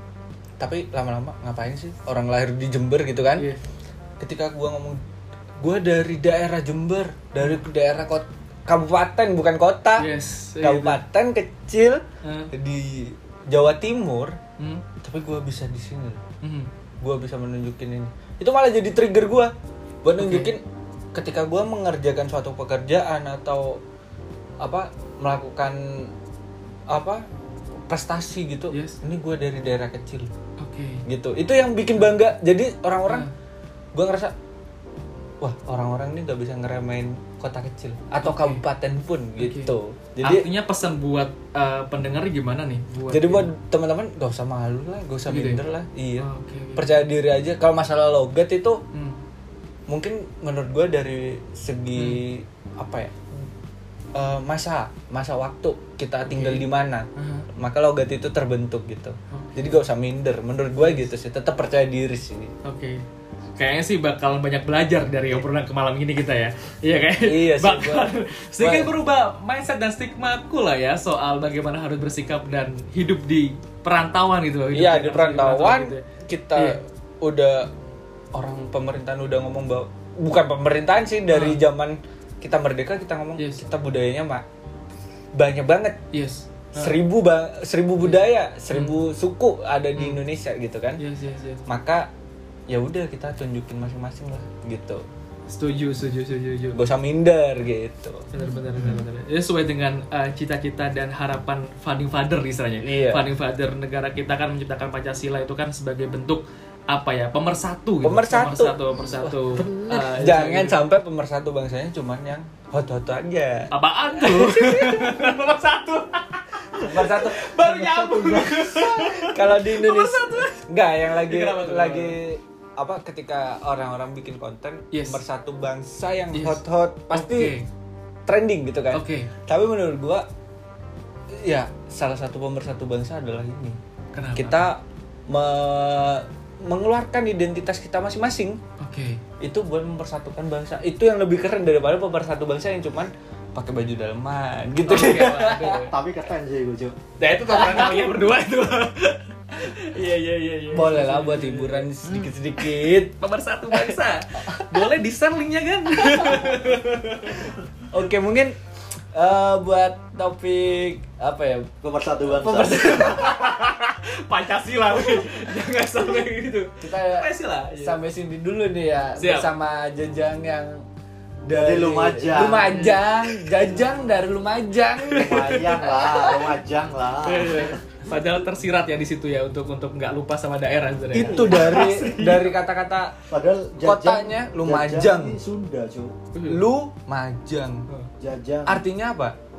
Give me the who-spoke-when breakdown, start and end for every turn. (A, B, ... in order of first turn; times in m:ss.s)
0:00.6-0:03.5 A
0:04.2-0:05.0 A
0:05.6-0:14.4 A
0:10.0-0:11.0 B
0:12.2-0:12.5 B
0:14.6-0:14.8 B
0:15.0-0:16.2 A
0:16.4-0:16.7 B
0:17.0-0:19.5 A
0:20.0-0:20.6 A
0:20.2-0:20.5 B
0:21.2-0:23.8 A
0:24.6-0:26.1 A
0:26.9-0:27.2 A
0:27.9-0:30.3 A
0:28.7-0:29.0 B
0:30.6-0:31.0 B
0:31.1-0:33.3 A
0:33.9-0:34.3 A
0:35.4-0:40.5 A
0:38.2-0:38.6 B
0:39.4-0:39.7 B
0:40.2-0:43.5 B
0:43.1-0:48.8 A
0:45.3-0:45.6 B
0:46.2-0:47.0 B
0:48.9-0:49.2 B
0:49.9-0:53.2 A
0:52.0-0:52.2 B
0:54.2-1:02.5 A
0:56.3-0:57.5 B
0:59.3-0:59.8 B
1:00.8-1:01.1 B
1:02.6-1:03.0 B
1:03.6-1:16.0 B
1:07.2-1:08.9 A
1:14.7-1:17.7 A
1:18.3-1:24.4 A
1:21.3-1:21.6 B
1:23.4-1:23.6 B
1:25.4-1:26.0 A
1:26.1-1:27.0 B
1:26.8-1:31.0 A
1:28.0-1:29.0 B
1:31.0-1:31.7 B
1:31.7-1:32.1 A
1:32.7-1:35.1 A
1:35.5-1:36.8 B
1:36.7-1:38.3 A
1:38.3-1:50.8 B
1:38.4-1:39.1 C
1:42.8-1:43.2 A
1:48.0-1:49.4 A
1:49.5-1:50.1 C
1:49.9-1:55.3 A
1:53.7-2:02.2 B
1:56.8-1:57.5 A
1:57.5-1:59.3 C
1:59.3-2:07.5 A
2:04.9-2:05.2 B
2:06.3-2:07.7 B
2:08.3-2:10.3 A
2:08.9-2:09.3 B
2:11.4-2:13.8 A
2:14.1-2:14.6 B
2:14.4-2:18.6 A
2:18.8-2:19.2 B
2:19.4-2:25.8 A
2:24.8-2:25.9 B
2:25.0-2:27.0 C
2:27.2-2:37.5 B
2:27.5-2:27.8 C
2:30.7-2:33.1 A
2:36.0-2:36.6 A
2:37.9-2:38.6 A
2:39.1-2:41.7 A
2:41.8-2:43.1 C
2:42.3-2:43.4 A
2:42.8-2:48.0 B
2:46.8-2:50.8 A
2:49.2-2:49.5 B
2:51.5-2:55.9 A
2:51.5-2:52.8 C
2:52.7-2:53.1 B
2:55.1-2:56.5 B
2:55.1-2:57.8 C
2:57.2-3:02.5 B
3:01.1-3:03.1 A
3:01.2-3:01.8 C
3:03.3-3:06.2 C
3:03.8-3:05.4 A
3:06.4-3:06.6 B
3:06.5-3:07.9 A
3:08.2-3:08.8 C
3:08.7-3:09.4 A